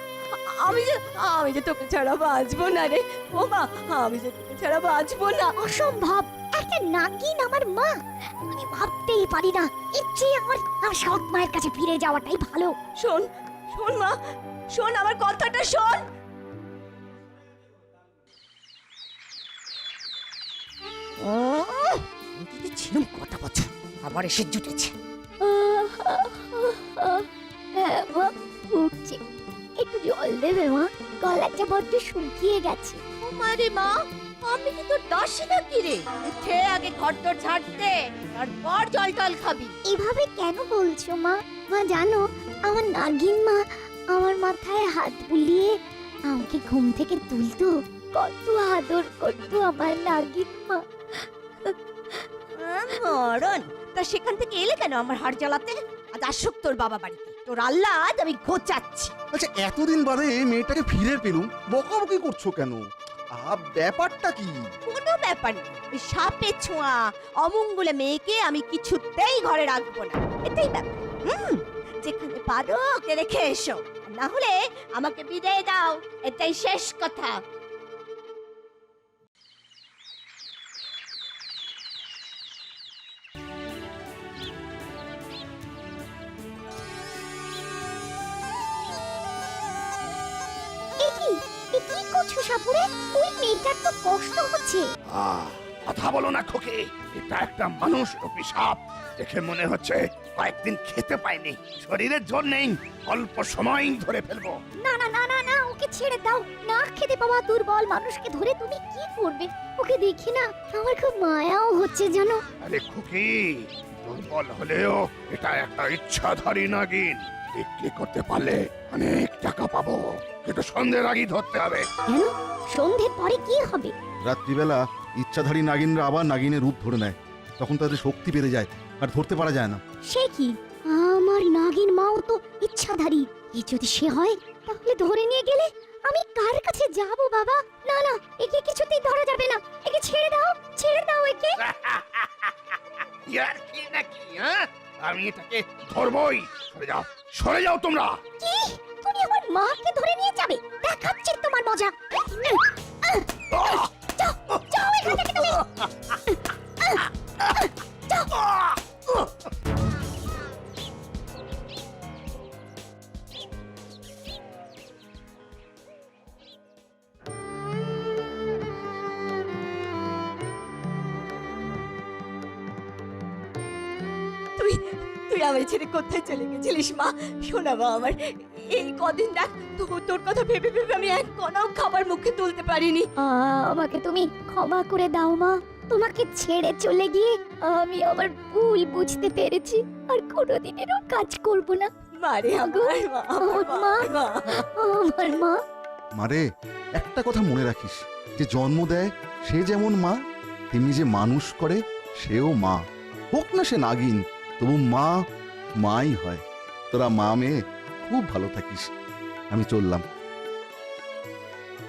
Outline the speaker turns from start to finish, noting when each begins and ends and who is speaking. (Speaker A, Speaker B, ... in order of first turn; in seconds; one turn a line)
Speaker A: 0.3-5.5
Speaker B: 5.6-12.7
Speaker A: 13.0-14.1
Speaker A: 14.7-16.0
Speaker A: 21.2-24.9
Speaker B: 25.4-29.2
Speaker B: 29.8-33.0
Speaker A: 33.2-39.7
Speaker B: 39.9-45.8
Speaker B: 46.3-52.2
Speaker A: 52.6-59.1
Speaker C: 59.3-62.8
Speaker C: 63.4-64.5
Speaker A: 64.9-77.3
Speaker B: 91.0-94.8
Speaker D: 95.2-104.5
Speaker B: 104.8-112.4
Speaker D: 112.7-113.5
Speaker D: 114.1-121.8
Speaker B: 122.1-123.9
Speaker C: 124.2-129.8
Speaker B: 130.1-141.6
Speaker D: 143.3-144.5
Speaker D: 145.1-148.1
Speaker B: 148.4-155.7
Speaker B: 156.8-158.4
Speaker A: 174.6-183.1
Speaker B: 183.2-191.9
Speaker A: 192.2-194.6
Speaker B: 192.6-195.6
Speaker C: 196.2-196.4
Speaker C: 197.0-200.1
Speaker C: 200.7-202.8
Speaker C: 203.3-205.1
Speaker C: 205.8-207.5
Speaker C: 208.1-208.8
Speaker C: 209.5-210.0